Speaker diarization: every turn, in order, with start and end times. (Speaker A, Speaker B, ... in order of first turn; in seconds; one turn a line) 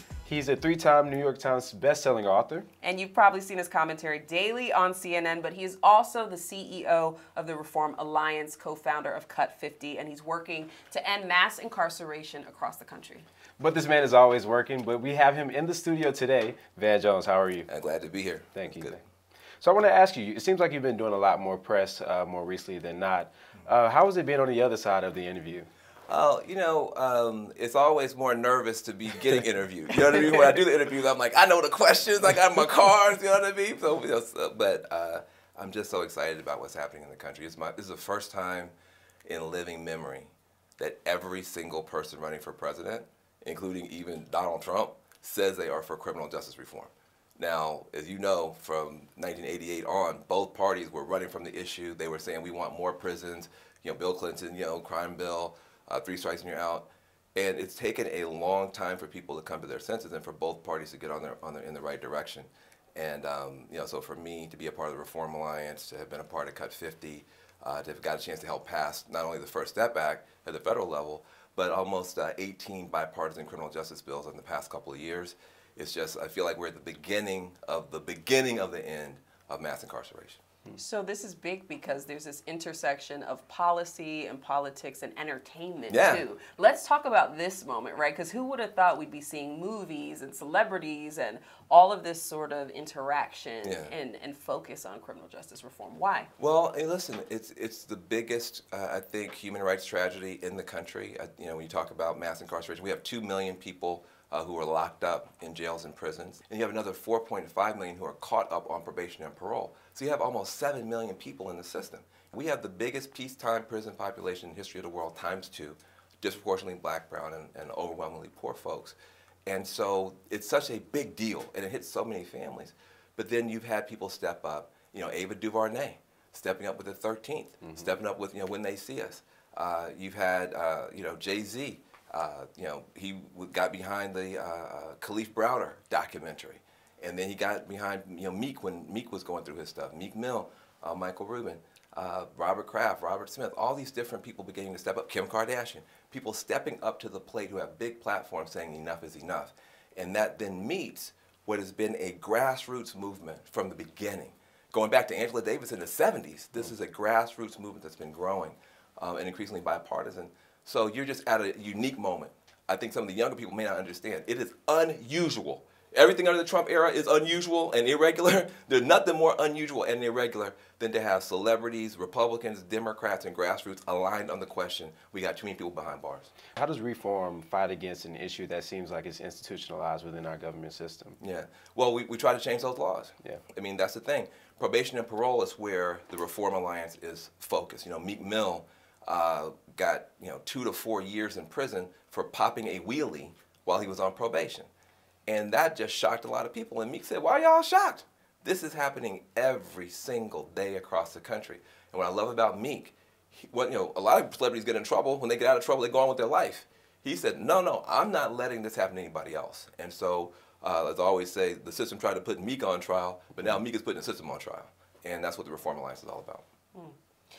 Speaker A: 0.2-2.7
Speaker B: 2.8-13.3
Speaker A: 13.6-17.7
Speaker C: 17.7-19.0
Speaker A: 18.6-19.0
Speaker A: 19.6-25.7
Speaker C: 26.1-38.7
Speaker C: 39.2-80.4
Speaker B: 80.8-96.3
Speaker C: 85.9-86.2
Speaker C: 93.6-93.9
Speaker C: 96.4-176.3
Speaker A: 127.6-127.9
Speaker A: 176.6-181.2
Speaker C: 181.2-194.7
Speaker C: 195.3-216.4